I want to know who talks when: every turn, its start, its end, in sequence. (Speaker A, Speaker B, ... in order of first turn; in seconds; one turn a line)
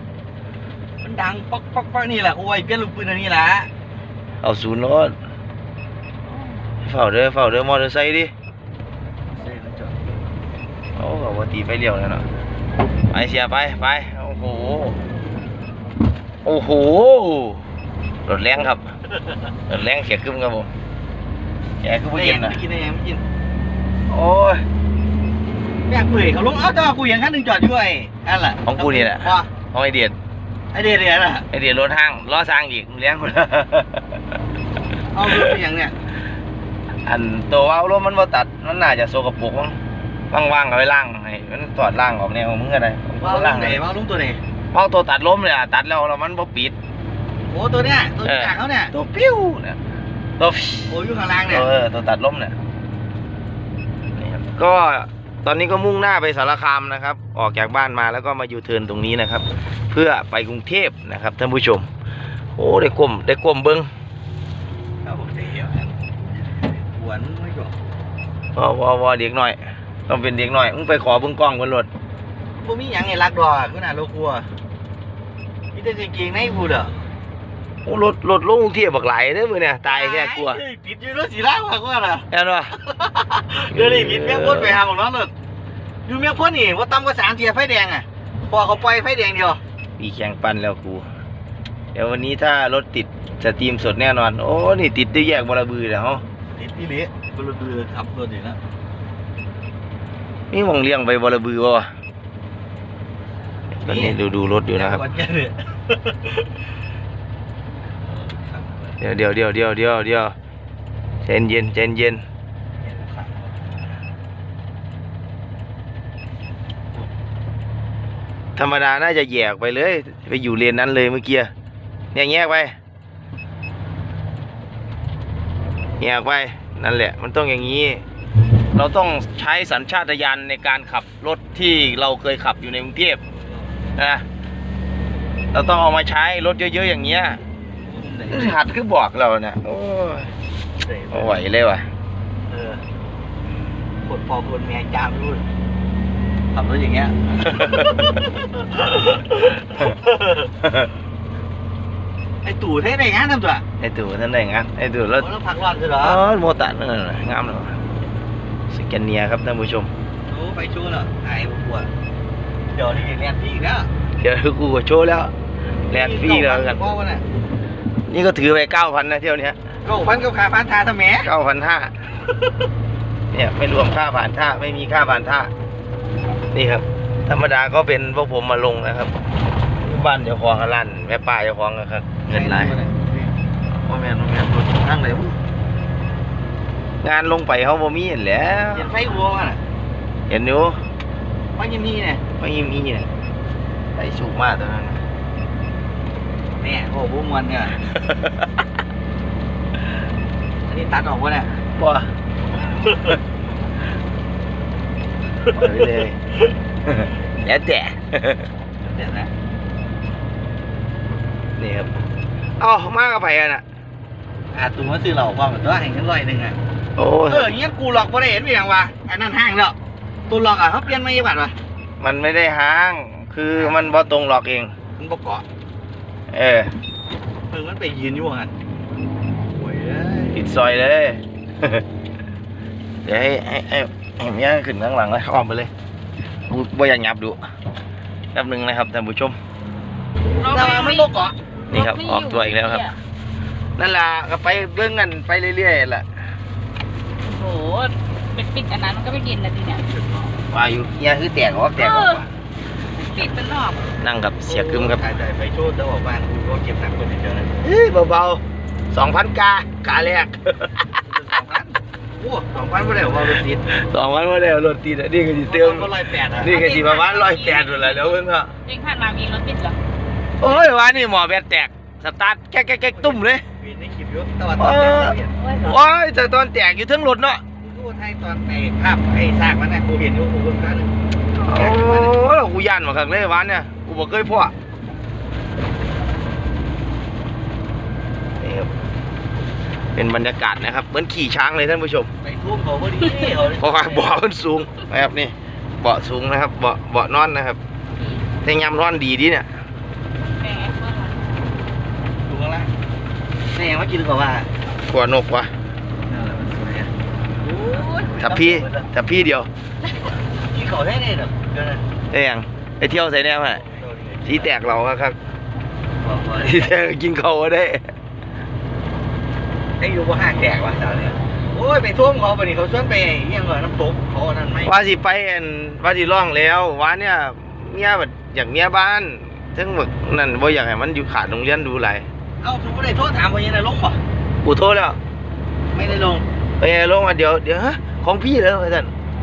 Speaker A: 1.0-3.7
Speaker B: 4.4-5.2
Speaker B: 6.8-8.3
Speaker A: 9.3-10.1
Speaker B: 10.9-12.2
Speaker B: 13.1-15.0
Speaker B: 16.4-17.6
Speaker B: 18.2-18.8
Speaker B: 19.7-20.7
Speaker B: 21.8-22.6
Speaker A: 22.1-23.2
Speaker B: 24.1-24.6
Speaker A: 25.9-29.5
Speaker B: 28.6-30.1
Speaker A: 30.7-31.4
Speaker B: 31.5-34.1
Speaker A: 35.1-35.9
Speaker B: 35.3-35.5
Speaker B: 37.0-39.8
Speaker B: 40.3-43.8
Speaker A: 43.2-44.4
Speaker B: 44.7-46.7
Speaker A: 47.5-48.9
Speaker B: 48.2-49.8
Speaker B: 50.4-50.9
Speaker A: 50.9-51.7
Speaker B: 51.5-52.5
Speaker B: 54.1-61.9
Speaker B: 62.5-63.9
Speaker A: 65.0-67.7
Speaker B: 68.5-71.9
Speaker A: 72.6-74.5
Speaker A: 75.7-76.9
Speaker B: 77.8-80.6
Speaker A: 79.8-82.2
Speaker B: 82.3-82.7
Speaker A: 82.8-85.3
Speaker B: 83.7-84.8
Speaker A: 86.0-89.6
Speaker B: 90.0-91.1
Speaker B: 91.9-96.2
Speaker A: 96.6-98.6
Speaker B: 100.5-101.9
Speaker A: 103.8-104.2
Speaker B: 103.8-105.0
Speaker A: 104.7-106.4
Speaker A: 108.0-109.0
Speaker B: 109.0-110.3
Speaker B: 111.2-112.2
Speaker A: 112.8-113.8
Speaker B: 118.6-121.5
Speaker B: 122.1-122.8
Speaker B: 126.0-128.0
Speaker B: 128.7-133.2
Speaker A: 133.3-133.8
Speaker B: 133.9-134.2
Speaker B: 135.5-137.4
Speaker A: 137.8-138.6
Speaker B: 138.3-140.3
Speaker A: 140.8-141.4
Speaker B: 141.1-141.9
Speaker A: 142.5-142.8
Speaker A: 144.0-145.4
Speaker A: 146.5-150.5
Speaker A: 152.4-153.6
Speaker B: 153.8-155.2
Speaker A: 155.2-156.2
Speaker B: 156.0-157.7
Speaker B: 158.7-159.9
Speaker A: 160.3-161.9
Speaker A: 162.7-163.9
Speaker B: 164.2-165.3
Speaker B: 165.9-166.9
Speaker A: 165.9-167.2
Speaker B: 168.1-169.6
Speaker A: 169.8-171.3
Speaker B: 171.2-171.9
Speaker B: 173.3-175.5
Speaker B: 176.5-179.1
Speaker B: 179.8-182.8
Speaker A: 182.3-183.3
Speaker B: 183.8-185.3
Speaker B: 187.0-188.9
Speaker A: 188.7-189.6
Speaker B: 190.3-190.8
Speaker A: 191.6-192.2
Speaker B: 192.4-193.1
Speaker B: 193.9-195.0
Speaker A: 196.6-197.8
Speaker B: 197.9-198.3
Speaker A: 200.7-201.6
Speaker B: 201.8-202.1
Speaker A: 202.8-203.1
Speaker B: 205.5-206.2
Speaker B: 206.8-208.5
Speaker A: 208.8-209.3
Speaker B: 211.6-211.9
Speaker B: 212.6-213.6
Speaker A: 214.5-216.6
Speaker B: 217.0-217.5
Speaker A: 217.3-219.7
Speaker A: 220.3-221.5
Speaker B: 222.0-224.7
Speaker A: 223.6-223.8
Speaker A: 225.0-225.4
Speaker B: 226.3-226.7
Speaker A: 227.5-228.5
Speaker A: 229.5-230.3
Speaker B: 230.3-231.8
Speaker B: 233.0-235.7
Speaker B: 236.5-237.4
Speaker B: 238.3-239.3
Speaker C: 240.4-241.1
Speaker A: 240.5-241.3
Speaker B: 241.7-242.9
Speaker C: 241.7-242.9
Speaker B: 243.8-246.1
Speaker C: 247.2-249.8
Speaker A: 249.9-250.2
Speaker B: 250.5-252.3
Speaker C: 251.8-252.2
Speaker C: 253.0-253.8
Speaker B: 254.0-255.0
Speaker A: 254.4-257.5
Speaker B: 257.6-260.8
Speaker A: 261.1-263.7
Speaker B: 263.7-268.5
Speaker A: 265.3-266.6
Speaker C: 266.4-268.1
Speaker C: 268.6-269.8
Speaker B: 270.4-273.4
Speaker A: 272.9-275.4
Speaker B: 274.6-277.4
Speaker C: 275.4-275.7
Speaker A: 277.6-282.2
Speaker B: 281.4-284.5
Speaker B: 288.4-288.7
Speaker B: 289.9-292.1
Speaker A: 292.2-294.2
Speaker B: 293.6-297.6
Speaker C: 298.0-298.2
Speaker B: 298.4-299.4
Speaker C: 300.4-301.2
Speaker A: 302.2-302.7
Speaker A: 303.5-304.5
Speaker B: 304.9-305.5
Speaker A: 306.1-306.9
Speaker A: 307.4-308.9
Speaker C: 307.5-308.1
Speaker B: 308.1-309.5
Speaker A: 310.4-311.8
Speaker B: 312.1-313.6
Speaker A: 313.5-314.6
Speaker B: 314.2-315.2
Speaker A: 316.0-316.7
Speaker B: 316.4-317.9
Speaker A: 319.8-324.8
Speaker B: 324.6-332.1
Speaker A: 332.4-334.0
Speaker B: 334.4-335.0
Speaker A: 335.7-336.2
Speaker B: 336.6-338.9